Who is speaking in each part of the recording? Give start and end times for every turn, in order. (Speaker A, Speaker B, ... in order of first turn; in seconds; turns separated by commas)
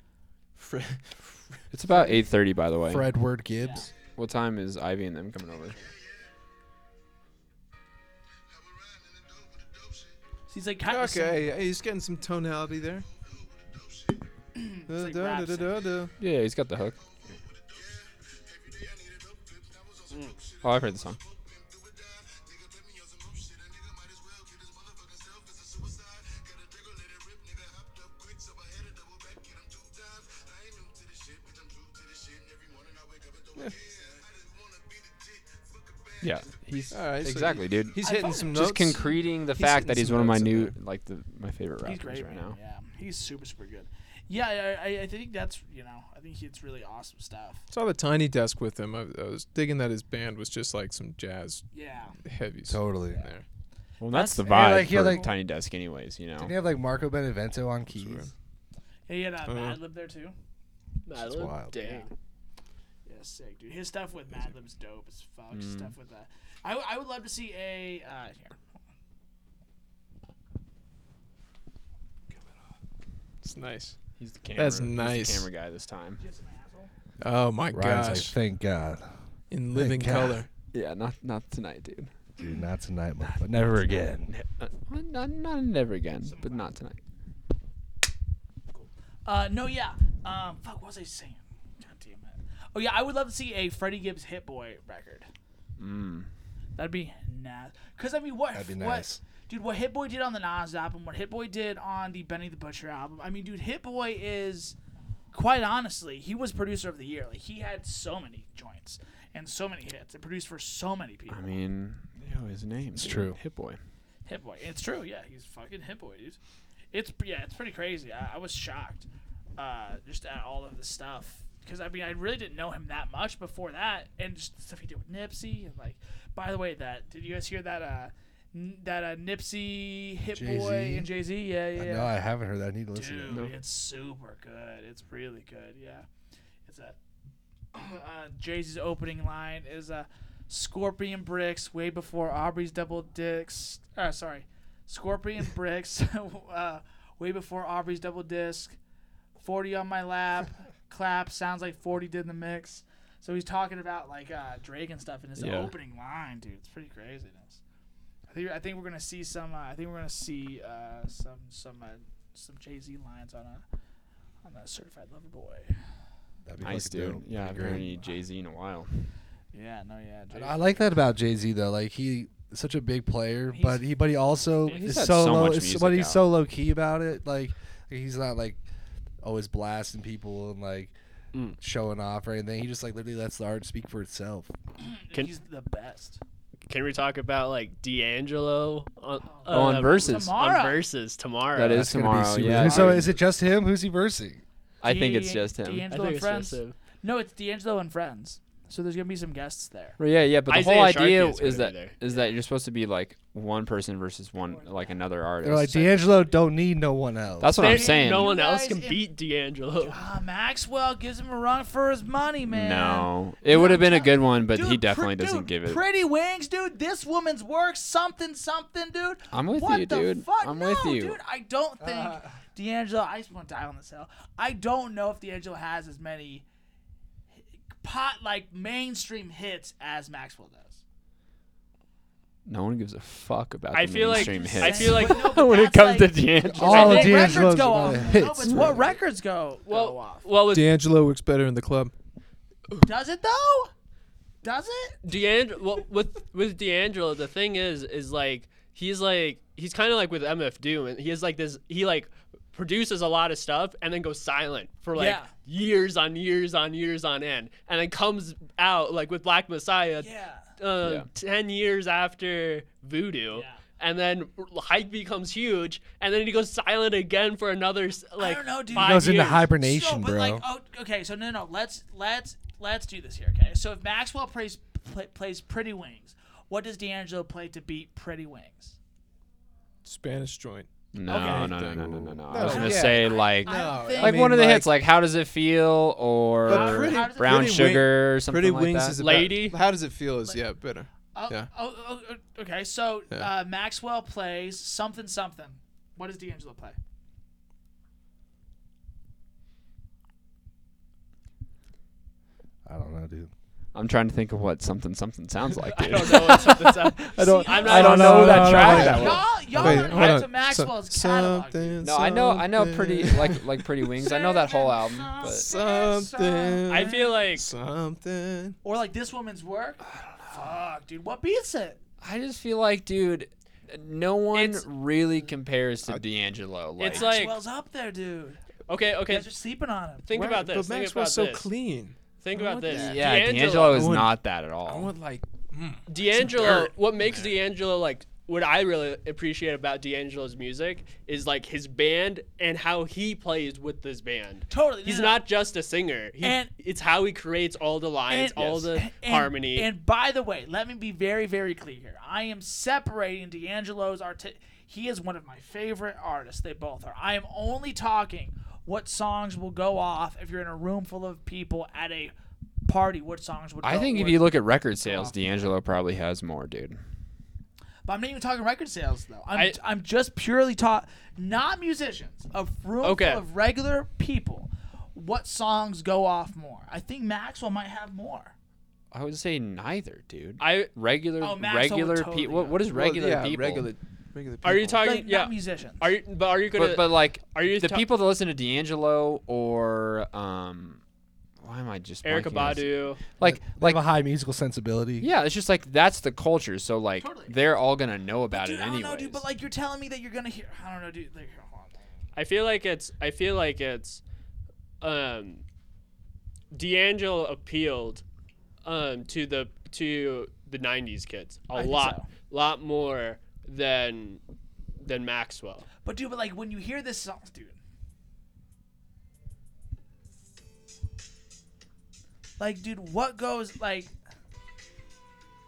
Speaker A: 0.6-1.6, Speaker B: 1.7-3.1, Speaker C: 2.9-3.9, Speaker D: 3.6-3.9, Speaker B: 4.2-5.8, Speaker D: 10.5-11.7, Speaker A: 10.9-13.1, Speaker D: 14.6-15.8, Speaker A: 14.9-16.1, Speaker B: 16.2-17.0, Speaker E: 20.1-20.4, Speaker B: 20.6-21.2, Speaker B: 36.2-42.6, Speaker A: 36.9-40.8, Speaker D: 38.0-39.0, Speaker D: 41.8-47.6, Speaker A: 47.7-51.6, Speaker D: 51.7-52.2, Speaker A: 52.2-53.4, Speaker C: 52.7-53.3, Speaker B: 54.0-56.5, Speaker D: 54.1-55.3, Speaker C: 54.4-55.3, Speaker C: 56.4-58.3, Speaker A: 57.9-58.3, Speaker D: 59.1-60.3, Speaker A: 59.5-59.8, Speaker E: 61.1-62.1, Speaker C: 61.2-61.7, Speaker D: 61.8-62.1, Speaker D: 63.1-68.6, Speaker B: 65.5-65.9, Speaker A: 73.4-74.0, Speaker B: 74.2-76.2, Speaker A: 74.5-75.5, Speaker D: 76.2-76.9, Speaker A: 77.2-78.3, Speaker C: 77.7-79.1, Speaker A: 79.5-80.5, Speaker C: 79.7-80.4, Speaker B: 80.7-82.1, Speaker C: 82.4-84.3, Speaker B: 84.3-87.0, Speaker D: 86.2-86.7, Speaker D: 88.7-95.3, Speaker B: 95.8-96.3, Speaker D: 96.8-104.8, Speaker C: 98.5-99.2, Speaker D: 105.3-111.6, Speaker B: 111.3-113.8, Speaker C: 113.0-113.4, Speaker D: 114.3-116.4, Speaker D: 116.9-132.1, Speaker C: 130.3-131.1, Speaker C: 131.8-133.5, Speaker D: 132.9-136.1, Speaker D: 136.7-137.0, Speaker D: 137.7-148.8, Speaker D: 149.4-157.6, Speaker B: 155.4-155.7, Speaker D: 158.3-163.6, Speaker D: 164.4-165.8, Speaker C: 166.5-167.9, Speaker B: 166.6-169.1, Speaker D: 167.6-168.1, Speaker D: 169.5-170.8, Speaker C: 170.3-178.6, Speaker D: 173.5-173.9, Speaker E: 174.7-174.9, Speaker B: 174.7-176.2, Speaker C: 179.2-180.9, Speaker C: 181.6-184.5, Speaker D: 184.8-186.2, Speaker E: 186.7-191.9, Speaker D: 189.2-190.8, Speaker B: 189.5-190.3, Speaker B: 191.6-193.1, Speaker C: 191.7-194.4, Speaker E: 192.6-193.0, Speaker B: 194.8-195.9, Speaker D: 194.8-200.0, Speaker E: 195.9-196.8, Speaker B: 200.0-206.0, Speaker E: 200.5-202.0, Speaker D: 204.5-205.0, Speaker C: 205.4-207.6, Speaker B: 207.4-208.3, Speaker D: 207.6-209.0, Speaker E: 207.6-210.0, Speaker D: 209.8-226.4, Speaker B: 212.5-215.8, Speaker B: 219.3-221.2, Speaker C: 221.8-222.3, Speaker D: 227.7-230.8, Speaker B: 232.4-237.6, Speaker E: 233.7-235.3, Speaker D: 234.1-240.3, Speaker C: 236.5-238.9, Speaker E: 236.6-237.4, Speaker E: 239.7-240.7, Speaker A: 240.5-241.9, Speaker D: 242.8-243.7, Speaker D: 244.4-245.0, Speaker E: 245.0-269.5, Speaker D: 254.9-255.3, Speaker D: 260.0-260.5, Speaker B: 260.8-261.1, Speaker D: 263.3-263.6, Speaker D: 268.2-278.8, Speaker C: 268.7-270.4, Speaker A: 279.8-284.7, Speaker B: 280.9-289.0, Speaker D: 281.1-281.6, Speaker D: 282.4-284.3, Speaker A: 286.5-291.5, Speaker D: 286.5-287.7, Speaker E: 289.0-289.6, Speaker D: 291.1-296.8, Speaker C: 302.7-303.3, Speaker B: 303.7-306.6, Speaker E: 305.7-309.0, Speaker D: 307.1-311.9, Speaker C: 307.2-309.8, Speaker B: 307.6-310.1, Speaker A: 308.4-313.7, Speaker B: 311.8-315.4, Speaker D: 314.0-317.2, Speaker A: 315.2-318.6, Speaker E: 316.7-317.5, Speaker D: 318.6-321.8, Speaker B: 319.9-320.4, Speaker B: 322.0-327.1, Speaker E: 324.3-324.7, Speaker E: 326.8-327.4, Speaker D: 326.9-328.4, Speaker E: 328.7-329.3, Speaker D: 329.1-330.2, Speaker E: 330.1-331.5, Speaker A: 330.1-332.0, Speaker E: 332.2-333.9, Speaker D: 332.3-333.1, Speaker A: 332.6-332.9, Speaker B: 332.7-334.9, Speaker A: 333.7-336.7, Speaker E: 335.9-349.7, Speaker D: 344.5-345.2, Speaker D: 346.2-346.5, Speaker D: 348.1-362.1, Speaker D: 362.6-365.5, Speaker B: 363.6-366.8, Speaker D: 367.9-378.3, Speaker E: 372.8-373.2, Speaker B: 378.9-383.7, Speaker E: 380.4-380.7, Speaker D: 381.2-382.6, Speaker A: 382.7-384.8, Speaker E: 384.4-387.9, Speaker D: 384.8-385.9, Speaker B: 386.6-390.8, Speaker B: 391.4-393.8, Speaker E: 392.0-393.0, Speaker C: 393.2-395.1, Speaker B: 395.0-399.2, Speaker D: 397.0-397.4, Speaker D: 398.3-401.8, Speaker E: 402.1-404.0, Speaker E: 404.8-405.4, Speaker E: 406.5-408.0, Speaker E: 408.6-414.2, Speaker D: 411.5-412.1, Speaker E: 414.8-415.7, Speaker D: 415.8-417.6, Speaker D: 422.4-423.9